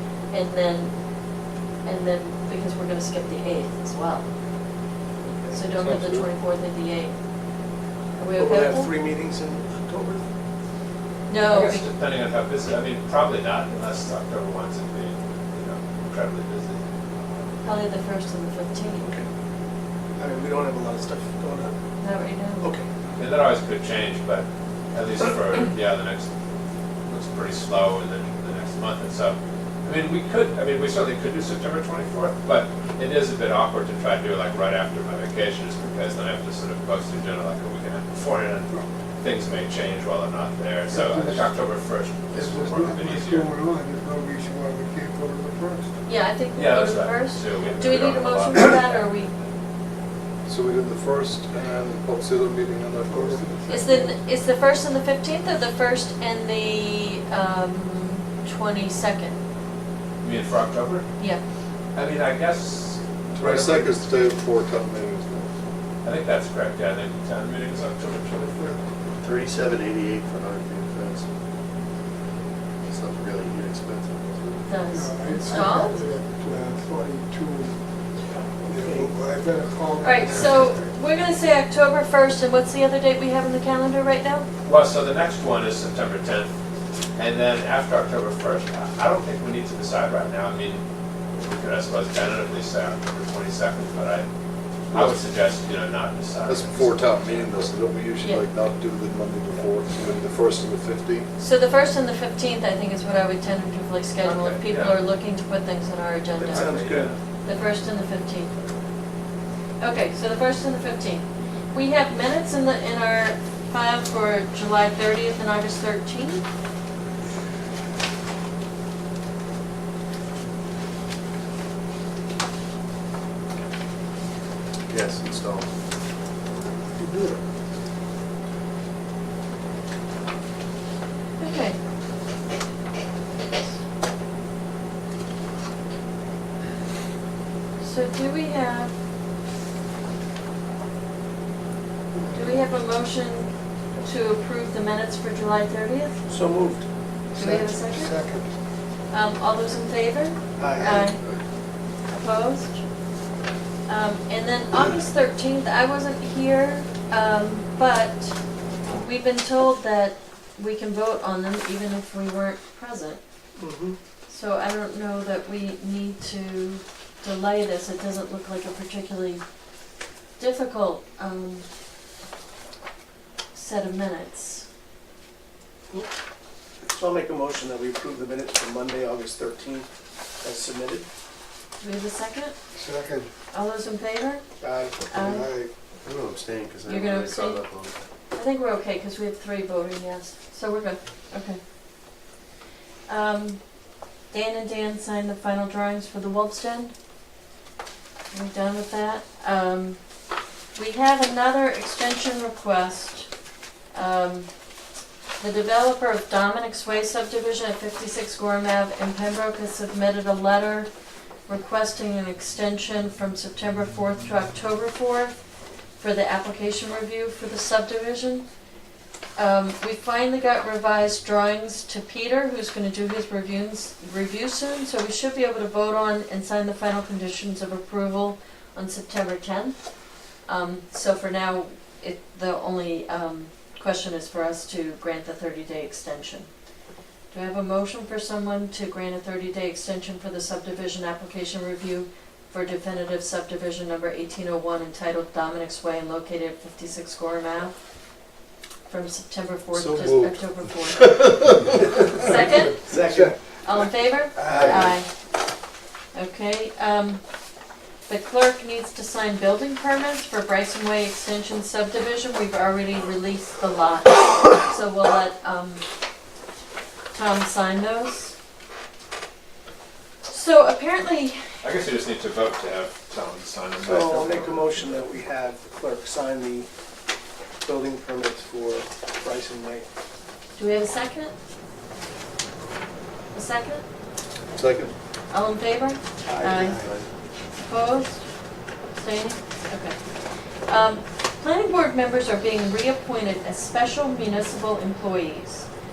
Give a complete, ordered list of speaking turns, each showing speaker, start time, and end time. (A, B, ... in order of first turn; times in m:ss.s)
0:00.3-0:00.9 A
0:01.8-0:04.2 A
0:05.5-0:07.2 A
0:05.7-0:06.3 B
0:08.2-0:08.9 A
0:08.4-0:10.2 C
0:11.3-0:11.9 A
0:11.5-0:17.5 D
0:17.6-0:19.1 A
0:19.0-0:19.3 C
0:20.2-0:21.7 C
0:22.0-0:22.7 A
0:22.6-0:22.9 C
0:23.2-0:26.3 D
0:27.1-0:43.5 D
0:40.9-0:41.6 E
0:42.3-0:46.0 E
0:46.1-0:49.3 A
0:46.6-0:49.5 D
0:50.5-0:53.4 B
0:53.1-0:54.2 E
0:53.7-0:59.4 A
1:00.2-1:01.1 D
1:01.9-1:03.9 D
1:03.4-1:05.5 B
1:06.0-1:08.8 D
1:09.2-1:11.3 F
1:12.8-1:14.6 F
1:14.7-1:16.0 A
1:14.9-1:17.9 E
1:18.2-1:19.1 C
1:18.7-1:20.9 E
1:20.0-1:24.5 A
1:24.6-1:26.5 D
1:27.2-1:30.8 D
1:31.4-1:34.3 D
1:34.9-1:37.6 D
1:34.9-1:35.2 B
1:36.5-1:41.3 B
1:38.2-1:38.5 A
1:41.4-1:46.7 A
1:44.2-1:45.0 D
1:46.4-1:47.2 D
1:46.4-1:47.2 C
1:47.4-1:48.5 A
1:49.8-1:56.4 A
2:04.9-2:05.7 F
2:06.6-2:07.4 E
2:11.4-2:11.8 A
2:17.8-2:18.9 A
2:22.1-2:22.7 E
2:22.3-2:26.3 A
2:26.3-2:26.9 C
2:27.4-2:28.1 A
2:27.4-2:28.5 E
2:29.1-2:31.2 A
2:30.6-2:31.1 C
2:30.8-2:31.4 B
2:32.1-2:32.8 A
2:33.9-2:38.4 A
2:38.9-2:43.2 A
2:43.6-2:44.0 C
2:44.3-2:49.4 A
2:50.4-2:51.7 A
2:53.5-2:54.7 A
2:56.9-2:59.9 C
3:00.4-3:01.1 C
3:01.8-3:02.6 A
3:02.8-3:03.3 E
3:03.5-3:04.4 A
3:04.6-3:05.1 C
3:05.1-3:05.5 A
3:05.1-3:05.7 E
3:06.0-3:08.0 F
3:06.9-3:07.7 A
3:08.3-3:11.6 A
3:13.1-3:13.6 A
3:14.3-3:16.9 A
3:18.3-3:20.0 A
3:20.8-3:23.3 A
3:23.9-3:24.5 A
3:25.4-3:30.9 A
3:31.5-3:35.4 A
3:36.0-3:38.5 A
3:39.4-3:56.5 A
3:57.3-4:07.8 A
4:08.9-4:11.3 A
4:09.7-4:11.9 B
4:12.2-4:12.9 A
4:12.2-4:12.7 E
4:12.9-4:13.4 C
4:13.6-4:15.1 A
4:14.4-4:14.9 C
4:14.5-4:14.9 B
4:16.1-4:17.2 A
4:18.1-4:25.8 A
4:27.1-4:28.4 A
4:30.3-4:31.4 A
4:31.6-4:35.0 D
4:33.8-4:36.7 C
4:37.6-4:39.9 C
4:40.6-4:41.3 A
4:43.3-4:43.8 A
4:44.5-4:44.9 F
4:45.3-4:46.8 A
4:46.2-4:46.9 C
4:46.8-4:47.1 F
4:47.6-4:48.3 A
4:48.9-4:50.0 A
4:50.7-4:55.7 A